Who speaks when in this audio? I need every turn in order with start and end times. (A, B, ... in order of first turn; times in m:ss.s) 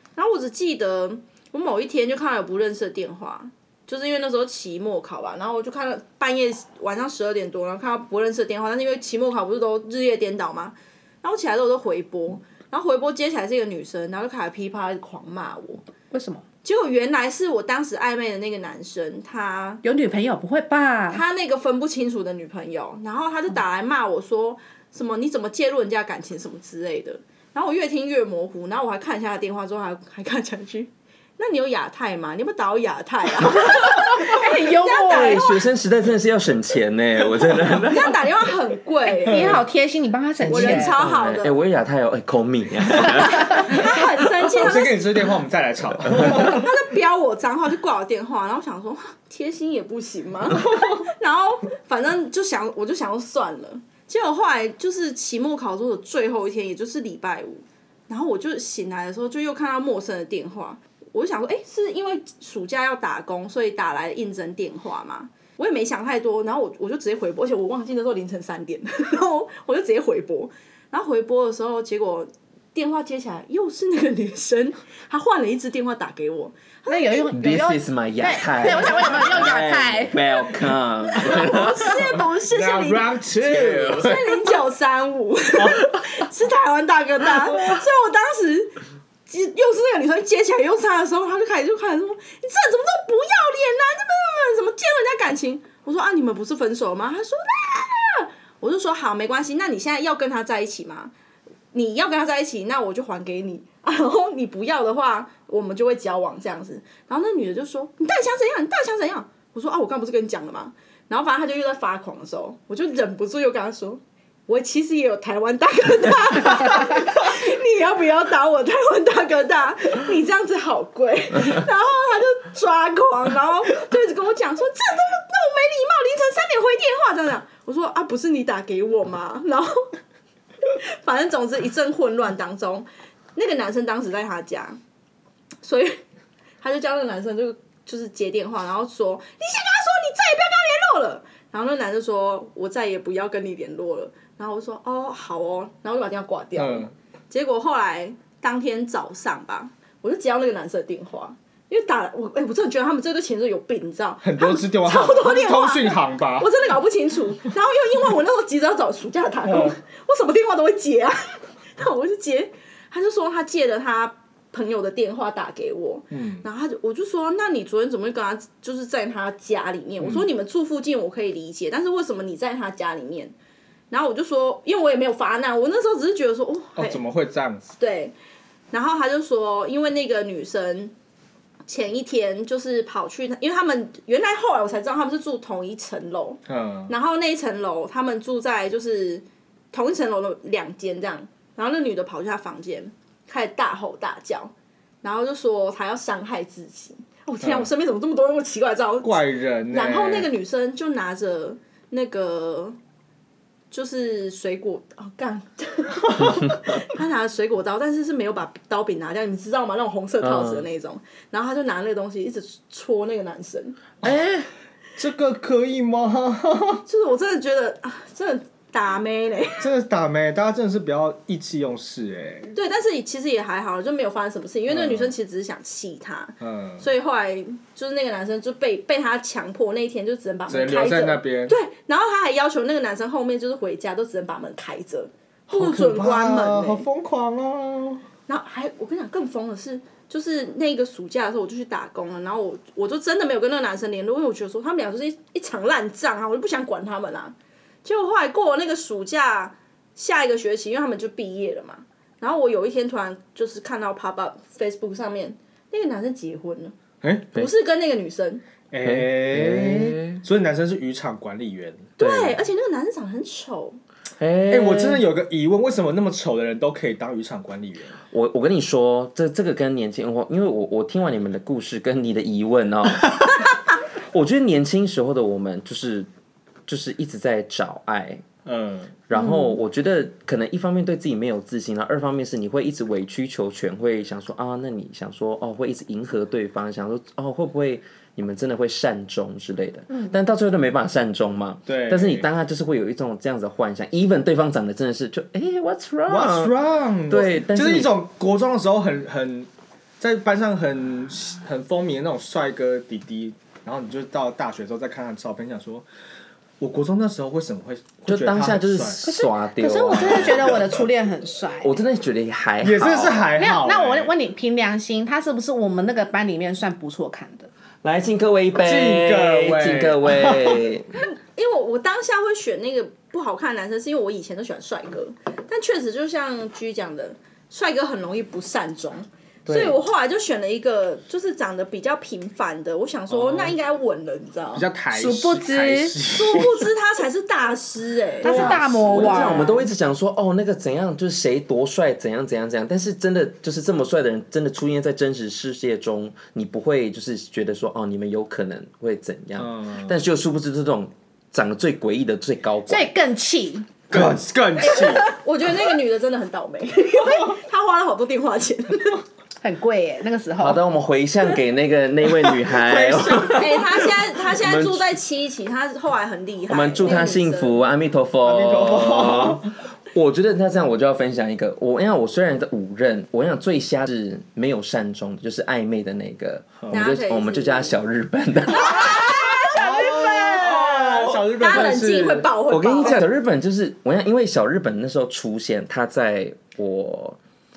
0:00.2-0:15.8 A
0:16.1-0:16.4 B
0:16.6-0:19.8 A
0:19.8-0:21.2 B
0:21.1-0:35.6 A
0:34.1-0:35.4 B
0:35.0-0:38.3 C
0:37.8-0:39.6 A
0:39.1-0:41.0 B
0:40.4-0:43.7 C
0:40.5-0:41.6 A
0:43.5-0:45.0 A
0:44.5-0:46.7 D
0:46.2-1:17.3 A
1:16.9-1:20.3 B
1:17.3-1:22.1 C
1:18.6-1:19.3 A
1:21.1-1:41.1 A
1:22.5-1:24.4 D
1:41.7-2:09.9 A
2:10.7-2:14.8 A
2:15.6-2:16.0 A
2:16.6-2:53.3 A
2:26.6-2:26.9 D
2:34.2-2:36.5 D
2:46.1-2:46.4 D
2:53.9-2:57.0 A
2:56.8-2:57.7 D
2:57.8-2:58.1 A
2:58.7-3:00.9 A
3:01.7-3:22.8 A
3:06.5-3:06.9 D
3:17.4-3:17.7 D
3:19.0-3:20.3 D
3:23.7-3:33.8 A
3:30.2-3:30.7 C
3:34.0-3:34.5 C
3:35.0-3:36.8 D
3:36.8-3:39.7 A
3:39.6-3:42.5 D
3:42.5-3:56.8 A
3:44.7-3:45.1 D
3:46.4-3:46.9 D
3:50.5-3:51.6 D
3:55.5-3:58.0 D
3:58.3-4:16.7 A
4:17.0-4:17.5 D
4:17.3-4:18.4 A
4:18.7-4:21.9 D
4:18.8-4:20.2 C
4:22.0-4:23.8 A
4:22.0-4:22.4 C
4:24.2-4:25.0 C
4:24.5-4:28.0 D
4:28.1-4:36.1 C
4:36.6-4:38.2 C
4:38.4-4:39.0 D
4:39.1-4:57.9 C
4:39.1-4:39.6 B
4:51.7-4:52.2 D
4:56.1-4:59.5 D
5:00.0-5:05.9 D
5:06.6-5:09.0 D
5:08.1-5:10.6 C
5:09.0-5:11.7 B
5:10.2-5:10.6 D
5:11.6-5:13.3 C
5:12.6-5:14.1 D
5:13.4-5:17.5 B
5:17.8-5:20.9 C
5:18.6-5:20.6 D
5:20.9-5:34.7 A
5:29.4-5:29.8 C
5:33.1-5:33.6 D
5:34.5-5:36.7 D
5:34.9-5:36.0 B
5:36.0-5:39.6 A
5:38.2-5:39.5 B
5:38.2-5:52.9 C
5:38.3-5:39.1 D
5:49.4-5:49.9 D
5:52.7-5:53.7 B
5:53.9-5:55.1 D
5:54.6-5:59.0 A
5:59.4-6:00.6 B
6:00.4-6:05.0 C
6:02.5-6:03.4 D
6:03.2-6:07.6 A
6:06.5-6:19.2 C
6:08.2-6:09.5 D
6:16.7-6:17.8 A
6:18.5-6:23.0 A
6:19.4-6:22.3 D
6:22.5-6:27.2 C